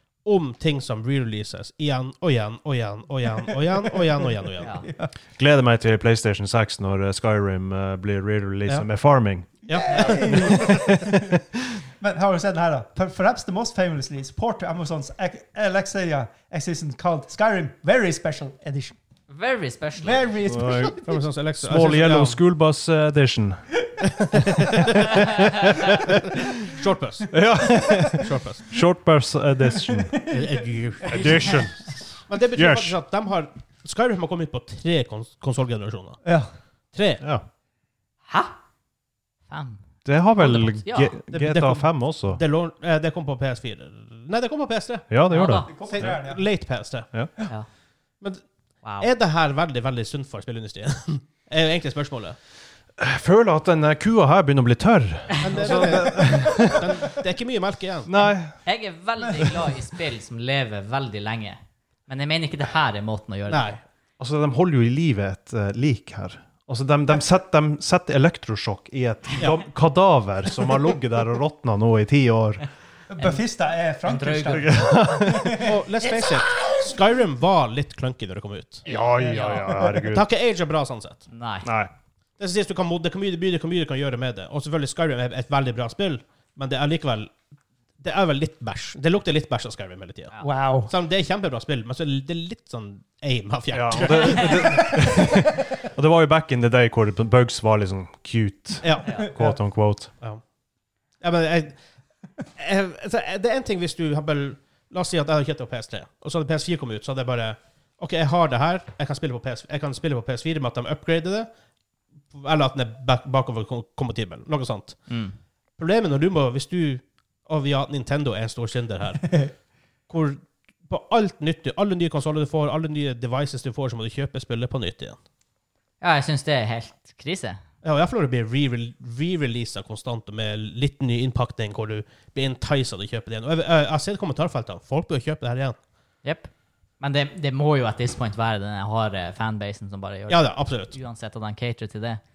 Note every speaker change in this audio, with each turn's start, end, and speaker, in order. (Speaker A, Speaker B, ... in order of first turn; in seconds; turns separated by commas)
Speaker A: 0.2-4.8, Speaker B: 3.5-5.1, Speaker C: 4.6-4.9, Speaker D: 5.4-11.4, Speaker A: 9.7-10.7, Speaker B: 9.7-11.4, Speaker B: 12.0-19.0, Speaker C: 19.3-20.3, Speaker B: 20.0-21.0, Speaker D: 20.4-21.0, Speaker A: 21.0-22.4, Speaker D: 21.6-23.6, Speaker A: 24.1-27.4, Speaker D: 24.9-26.4, Speaker D: 27.3-30.2, Speaker A: 28.1-28.7, Speaker B: 29.8-31.6, Speaker A: 30.3-31.6, Speaker D: 31.1-32.0, Speaker A: 32.3-36.2, Speaker D: 32.6-33.0, Speaker B: 36.2-36.5, Speaker A: 36.9-37.2, Speaker D: 37.2-37.5, Speaker C: 38.3-38.6, Speaker C: 39.5-39.8, Speaker D: 40.0-42.4, Speaker C: 40.4-41.1, Speaker A: 41.3-45.1, Speaker D: 45.1-46.1, Speaker C: 45.3-45.7, Speaker B: 45.5-46.4, Speaker A: 45.9-47.1, Speaker C: 48.8-49.1, Speaker A: 49.0-52.4, Speaker D: 53.0-57.1, Speaker A: 55.4-58.1, Speaker D: 58.1-58.6, Speaker C: 58.6-63.8, Speaker A: 63.5-63.8, Speaker D: 64.2-72.6, Speaker B: 73.1-76.8, Speaker C: 74.1-74.9, Speaker D: 74.5-75.7, Speaker A: 75.6-78.9, Speaker D: 78.9-80.3, Speaker C: 78.9-79.7, Speaker B: 79.3-80.1, Speaker A: 79.9-81.3, Speaker C: 81.3-81.7, Speaker D: 81.6-81.9, Speaker A: 82.4-87.3, Speaker A: 88.0-90.3, Speaker B: 90.4-90.9, Speaker A: 90.9-95.2, Speaker D: 93.7-100.1, Speaker A: 98.8-99.1, Speaker B: 99.3-99.6, Speaker A: 101.2-101.8, Speaker A: 102.6-111.5, Speaker A: 112.3-115.1, Speaker C: 115.1-115.3, Speaker A: 115.8-119.4, Speaker A: 120.1-125.2, Speaker C: 126.0-127.6, Speaker A: 127.8-135.8, Speaker C: 136.2-142.2, Speaker A: 140.3-141.0